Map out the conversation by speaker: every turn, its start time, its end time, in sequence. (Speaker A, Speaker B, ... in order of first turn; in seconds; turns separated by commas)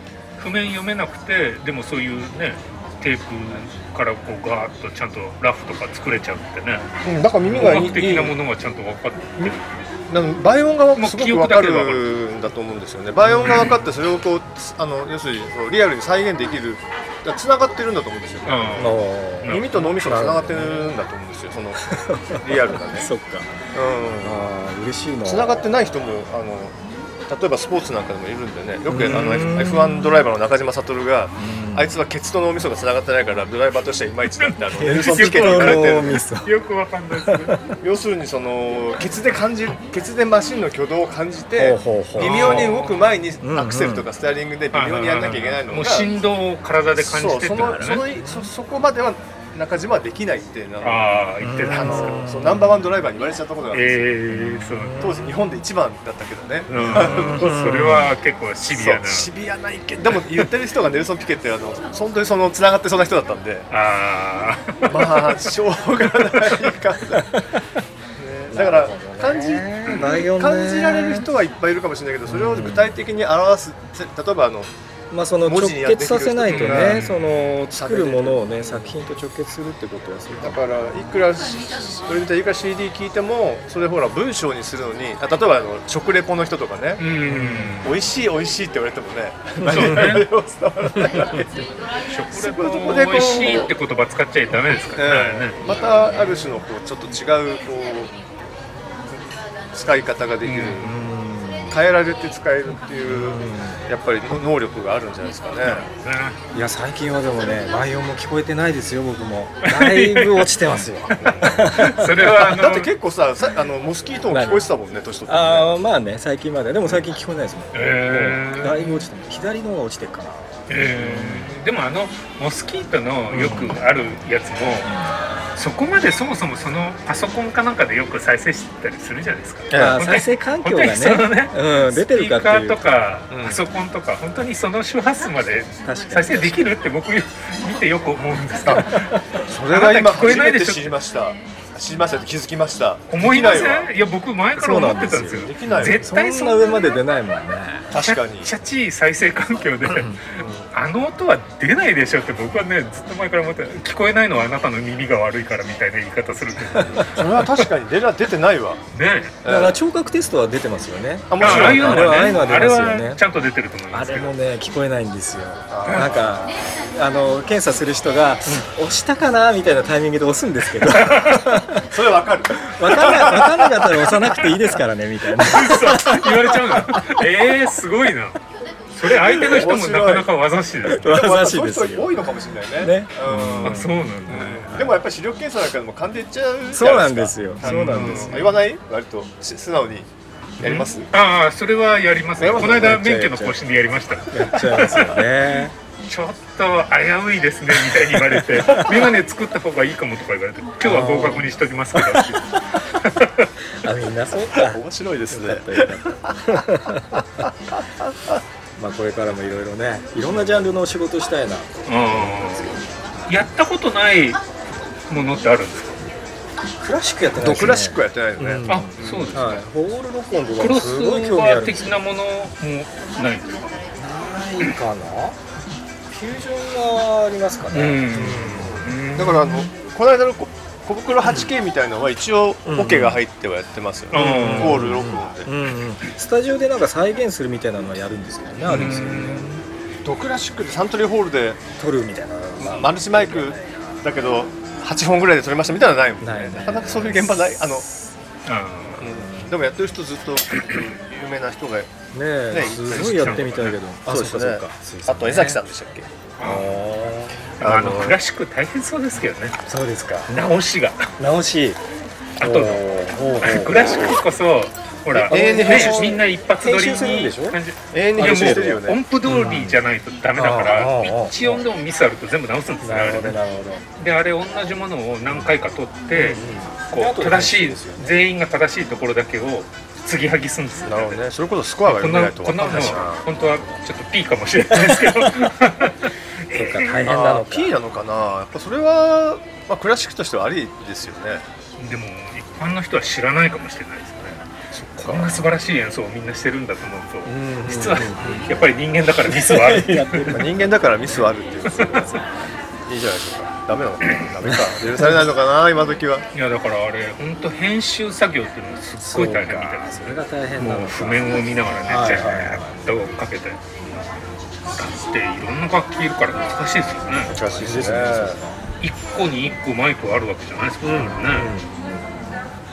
Speaker A: 0.4-6.8, Speaker B: 7.0-8.4, Speaker A: 7.5-9.8, Speaker B: 10.1-18.9, Speaker A: 11.0-12.1, Speaker C: 13.2-13.7, Speaker A: 13.4-13.7, Speaker A: 18.4-20.0, Speaker C: 18.8-20.9, Speaker B: 19.4-23.1, Speaker C: 21.8-23.5, Speaker B: 23.7-24.5, Speaker C: 24.2-25.6, Speaker B: 25.2-26.8, Speaker B: 27.3-36.2, Speaker C: 28.9-30.2, Speaker A: 29.1-29.6, Speaker C: 31.4-31.9, Speaker A: 34.4-37.6, Speaker C: 34.8-36.5, Speaker C: 37.2-37.7, Speaker B: 37.8-46.1, Speaker C: 41.6-42.7, Speaker A: 42.2-43.1, Speaker C: 43.4-44.0, Speaker A: 44.7-48.0, Speaker B: 47.0-54.1, Speaker C: 48.0-48.5, Speaker A: 50.8-52.3, Speaker C: 51.4-52.8, Speaker A: 53.7-55.2, Speaker C: 54.3-55.3, Speaker B: 55.0-57.9, Speaker A: 56.7-59.3, Speaker C: 56.8-58.1, Speaker B: 58.6-63.7, Speaker A: 63.7-65.5, Speaker B: 64.8-67.3, Speaker B: 68.2-74.7, Speaker C: 68.5-71.3, Speaker C: 72.3-72.9, Speaker C: 75.1-80.6, Speaker B: 75.4-77.1, Speaker A: 76.5-77.6, Speaker B: 77.7-78.9, Speaker B: 80.4-87.0, Speaker A: 87.0-88.0, Speaker C: 87.3-87.8, Speaker B: 87.8-91.6, Speaker C: 89.6-90.2, Speaker A: 89.6-90.3, Speaker C: 91.0-91.4, Speaker A: 92.0-95.6, Speaker B: 92.3-93.7, Speaker B: 95.0-98.1, Speaker B: 99.7-100.9, Speaker A: 100.4-100.9, Speaker C: 100.8-101.8, Speaker B: 101.7-105.9, Speaker C: 103.1-103.8, Speaker A: 105.6-106.4, Speaker C: 106.5-112.2, Speaker A: 109.6-112.9, Speaker B: 111.4-111.7, Speaker B: 112.2-115.7, Speaker C: 114.3-114.7, Speaker C: 115.3-121.5, Speaker A: 117.7-119.0, Speaker A: 120.7-124.9, Speaker C: 123.3-123.8, Speaker C: 124.8-125.2, Speaker A: 125.5-140.9, Speaker B: 129.7-130.0, Speaker C: 129.7-132.8, Speaker B: 133.3-133.6, Speaker C: 135.8-136.7, Speaker B: 138.6-138.9, Speaker C: 138.7-139.6, Speaker B: 139.5-143.9, Speaker A: 143.1-146.9, Speaker C: 144.6-147.9, Speaker B: 145.2-146.1, Speaker B: 147.9-148.5, Speaker A: 147.9-157.6, Speaker C: 149.9-150.2, Speaker B: 150.3-150.7, Speaker C: 156.8-157.1, Speaker B: 157.1-158.8, Speaker A: 158.9-159.4, Speaker B: 159.4-159.8, Speaker C: 159.4-163.2, Speaker B: 161.3-162.4, Speaker A: 161.4-164.3, Speaker C: 163.9-171.9, Speaker B: 165.7-166.6, Speaker A: 170.8-171.5, Speaker B: 171.9-174.0, Speaker C: 172.6-177.2, Speaker A: 175.4-178.4, Speaker A: 178.9-181.2, Speaker B: 179.0-180.3, Speaker C: 180.8-182.2, Speaker B: 180.8-190.1, Speaker C: 182.8-185.0, Speaker A: 183.6-184.7, Speaker C: 186.7-188.4, Speaker A: 187.6-188.6, Speaker B: 190.6-191.1, Speaker A: 190.6-195.2, Speaker B: 192.4-193.0, Speaker C: 192.4-193.6, Speaker C: 194.3-195.7, Speaker A: 196.1-203.5, Speaker C: 198.0-199.1, Speaker C: 200.8-202.9, Speaker C: 203.7-207.5, Speaker B: 204.5-206.8, Speaker B: 207.4-208.4, Speaker C: 208.8-212.9, Speaker A: 211.9-214.4, Speaker A: 215.1-216.0, Speaker C: 216.8-222.0, Speaker B: 217.4-219.4, Speaker A: 218.7-219.6, Speaker A: 220.6-223.6, Speaker C: 223.9-225.4, Speaker C: 226.1-228.9, Speaker A: 227.7-229.7, Speaker B: 229.1-235.5, Speaker C: 232.7-233.2, Speaker A: 234.1-234.8, Speaker C: 234.1-239.6, Speaker A: 238.7-239.6, Speaker B: 240.0-241.6, Speaker C: 241.8-244.0, Speaker B: 242.6-247.8, Speaker C: 246.2-247.5, Speaker A: 248.4-249.1, Speaker B: 249.0-251.9, Speaker C: 249.0-249.5, Speaker C: 252.1-255.6, Speaker B: 252.5-256.1, Speaker A: 252.8-253.8, Speaker A: 256.4-256.7, Speaker C: 256.4-257.4, Speaker A: 257.6-259.6, Speaker B: 257.6-258.2, Speaker C: 259.6-260.4, Speaker A: 260.3-261.1, Speaker C: 261.2-261.8, Speaker C: 262.4-264.2, Speaker A: 262.4-262.8, Speaker A: 263.4-273.4, Speaker C: 265.1-267.6, Speaker B: 265.1-266.2, Speaker B: 267.9-269.0, Speaker C: 268.2-269.8, Speaker C: 270.3-271.6, Speaker C: 272.8-273.8, Speaker A: 274.0-281.2, Speaker C: 276.1-278.1, Speaker B: 280.9-283.3, Speaker A: 281.8-287.1, Speaker C: 284.9-285.3, Speaker C: 286.5-287.7, Speaker B: 287.0-291.4, Speaker A: 291.8-300.4, Speaker C: 295.0-295.4, Speaker B: 295.0-295.3, Speaker C: 297.2-298.7, Speaker C: 299.3-300.6, Speaker B: 300.2-302.3, Speaker A: 301.8-302.1, Speaker C: 301.9-302.3, Speaker B: 302.9-306.2, Speaker C: 304.4-305.3, Speaker A: 306.3-313.6, Speaker C: 309.0-311.3, Speaker C: 311.9-312.9, Speaker A: 314.7-317.3, Speaker B: 317.3-318.4, Speaker C: 317.3-318.6, Speaker A: 318.8-321.5, Speaker C: 320.8-322.4